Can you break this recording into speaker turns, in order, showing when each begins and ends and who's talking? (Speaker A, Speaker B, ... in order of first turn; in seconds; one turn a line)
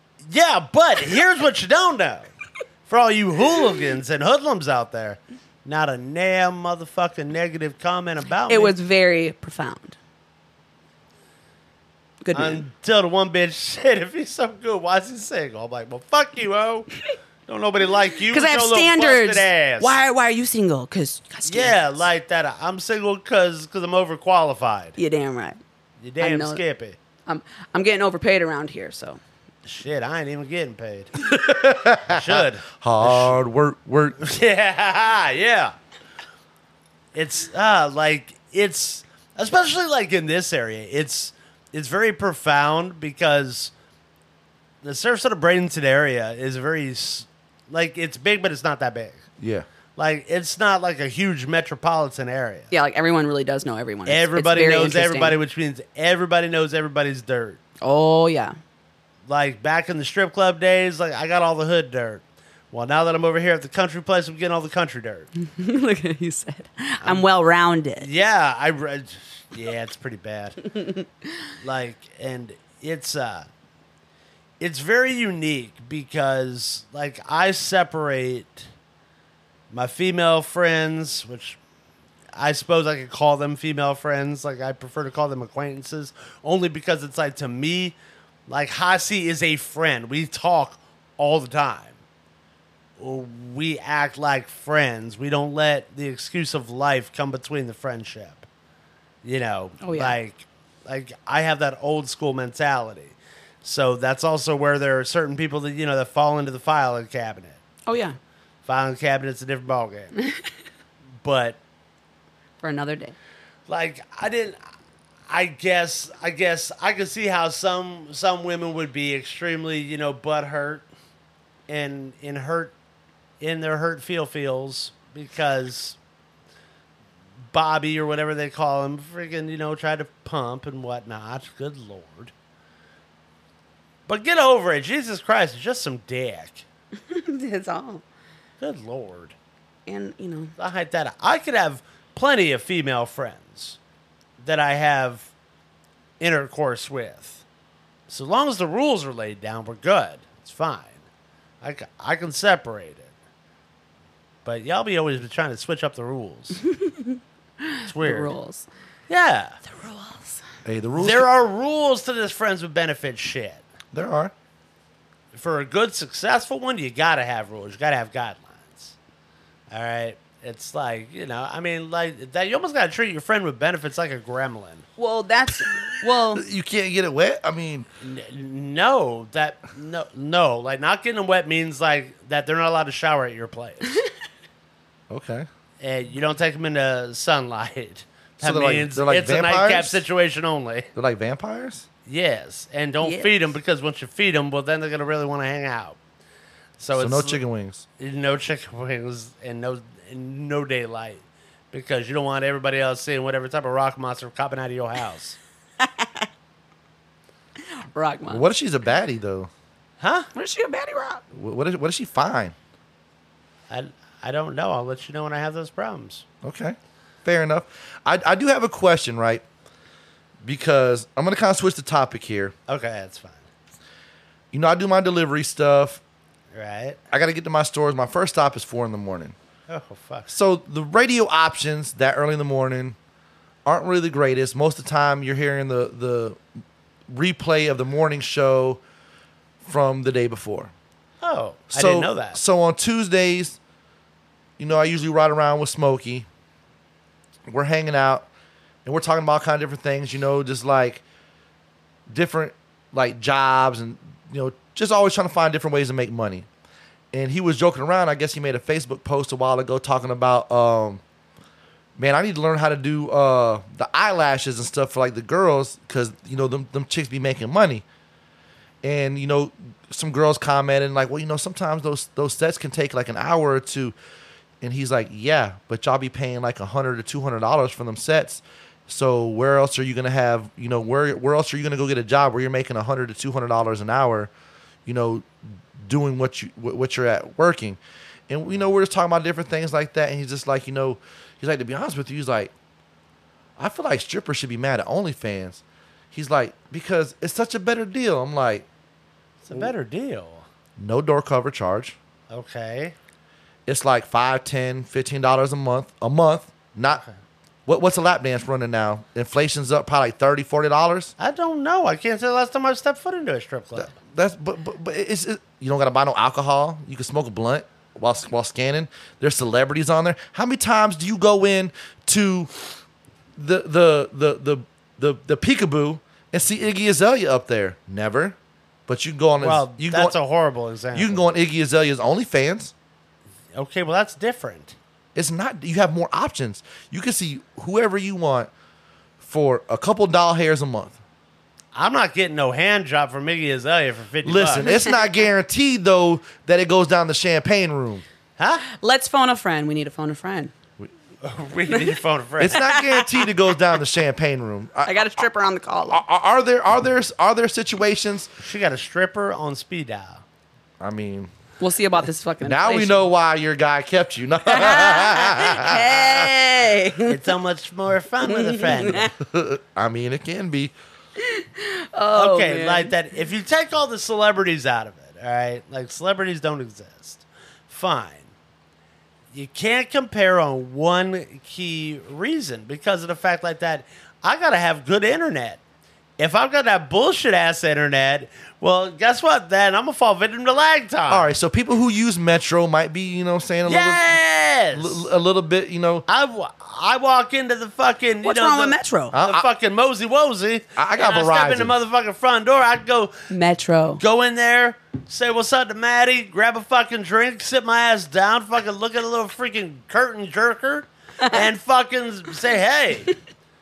Speaker A: 0.3-2.2
Speaker A: 2.9-8.7
Speaker B: 8.5-9.9
Speaker B: 12.2-12.6
Speaker A: 12.3-16.9
Speaker A: 17.5-20.0
Speaker B: 18.3-22.0
Speaker A: 21.5-25.0
Speaker B: 25.0-25.6
Speaker A: 26.0-27.0
Speaker B: 26.2-26.6
Speaker B: 27.2-29.2
Speaker A: 29.6-31.3
Speaker C: 31.2-34.2
Speaker A: 32.0-33.4
Speaker A: 34.2-35.7
Speaker A: 37.1-43.7
Speaker A: 44.8-49.2
Speaker C: 49.4-49.7
Speaker A: 50.0-52.7
Speaker B: 52.7-55.4
Speaker A: 54.0-57.6
Speaker B: 57.8-58.5
Speaker A: 59.3-65.3
Speaker B: 65.5-68.1
Speaker A: 68.0-70.7
Speaker B: 70.8-71.0
Speaker A: 71.6-73.5
Speaker A: 74.6-78.7
Speaker A: 79.7-81.6
Speaker A: 82.3-88.0
Speaker A: 88.5-92.0
Speaker A: 93.0-98.4
Speaker A: 99.2-107.6
Speaker B: 99.8-100.2
Speaker B: 107.9-108.2
Speaker A: 108.7-110.1
Speaker A: 111.2-111.6
Speaker B: 112.6-113.1
Speaker A: 113.7-114.6
Speaker A: 115.3-120.8
Speaker A: 121.7-122.7
Speaker A: 123.4-126.0
Speaker A: 127.5-132.3
Speaker A: 134.1-136.6
Speaker B: 137.1-138.0
Speaker A: 138.6-139.3
Speaker B: 139.9-140.5
Speaker A: 140.6-143.8
Speaker A: 144.4-145.3
Speaker A: 146.2-147.4
Speaker A: 148.1-151.0
Speaker A: 151.6-153.1
Speaker A: 154.4-156.6
Speaker B: 156.6-158.7
Speaker A: 157.9-158.3
Speaker A: 159.1-159.6
Speaker B: 159.7-160.4
Speaker C: 160.6-161.3
Speaker A: 161.0-163.6
Speaker C: 163.9-164.3
Speaker A: 165.3-168.9
Speaker A: 169.7-174.8
Speaker B: 175.0-176.4
Speaker C: 176.3-177.8
Speaker A: 178.0-184.0
Speaker C: 185.1-185.5
Speaker A: 185.8-190.9
Speaker C: 188.4-190.0
Speaker C: 190.9-191.9
Speaker A: 192.1-196.0
Speaker B: 193.0-193.3
Speaker A: 196.8-197.4
Speaker C: 196.9-197.8
Speaker A: 198.0-205.4
Speaker B: 205.8-206.3
Speaker B: 207.9-208.4
Speaker C: 208.3-209.5
Speaker A: 210.0-210.3
Speaker B: 210.3-211.2
Speaker C: 211.3-212.5
Speaker A: 213.7-216.2
Speaker C: 216.4-219.4
Speaker C: 220.4-222.5
Speaker A: 222.7-223.4
Speaker C: 224.5-226.0
Speaker A: 226.5-227.0
Speaker C: 227.1-229.3
Speaker A: 229.7-230.3
Speaker C: 230.3-232.9
Speaker C: 233.6-236.4
Speaker C: 237.1-238.8
Speaker C: 239.6-240.7
Speaker A: 241.2-242.4
Speaker C: 241.7-243.6
Speaker C: 244.6-246.3
Speaker C: 247.5-248.3
Speaker C: 248.8-251.0
Speaker C: 252.1-256.5
Speaker C: 257.1-261.0
Speaker C: 262.0-267.8
Speaker C: 268.8-273.9
Speaker C: 274.6-284.3
Speaker C: 284.9-292.5
Speaker C: 293.6-298.6
Speaker A: 299.4-300.4
Speaker C: 300.8-301.9
Speaker A: 302.3-302.9
Speaker C: 303.7-307.0
Speaker C: 307.6-311.1
Speaker A: 311.2-313.9
Speaker C: 313.8-322.5
Speaker C: 323.4-328.4
Speaker C: 328.9-330.1
Speaker A: 329.4-331.3
Speaker C: 330.9-332.7
Speaker A: 333.5-334.8
Speaker C: 335.1-338.5
Speaker C: 339.2-340.9
Speaker A: 341.7-344.7
Speaker C: 344.2-348.0
Speaker B: 344.6-344.9
Speaker A: 348.4-348.6
Speaker B: 348.7-350.5
Speaker A: 351.2-352.6
Speaker C: 352.4-355.2
Speaker B: 352.5-353.3
Speaker B: 354.8-356.0
Speaker C: 355.9-358.3
Speaker A: 358.4-360.2
Speaker C: 360.8-361.3
Speaker B: 361.6-363.0
Speaker C: 362.4-366.3
Speaker B: 364.5-367.2
Speaker A: 367.1-369.1
Speaker B: 368.2-369.1
Speaker C: 369.2-370.7
Speaker B: 371.2-372.9
Speaker A: 372.1-378.3
Speaker A: 379.3-385.6
Speaker A: 386.2-391.3
Speaker C: 391.1-394.1
Speaker A: 393.6-395.1
Speaker C: 394.7-396.0
Speaker A: 396.1-403.1
Speaker B: 398.2-399.1
Speaker C: 399.1-399.5
Speaker C: 400.8-401.7
Speaker B: 403.3-404.0
Speaker A: 404.0-413.1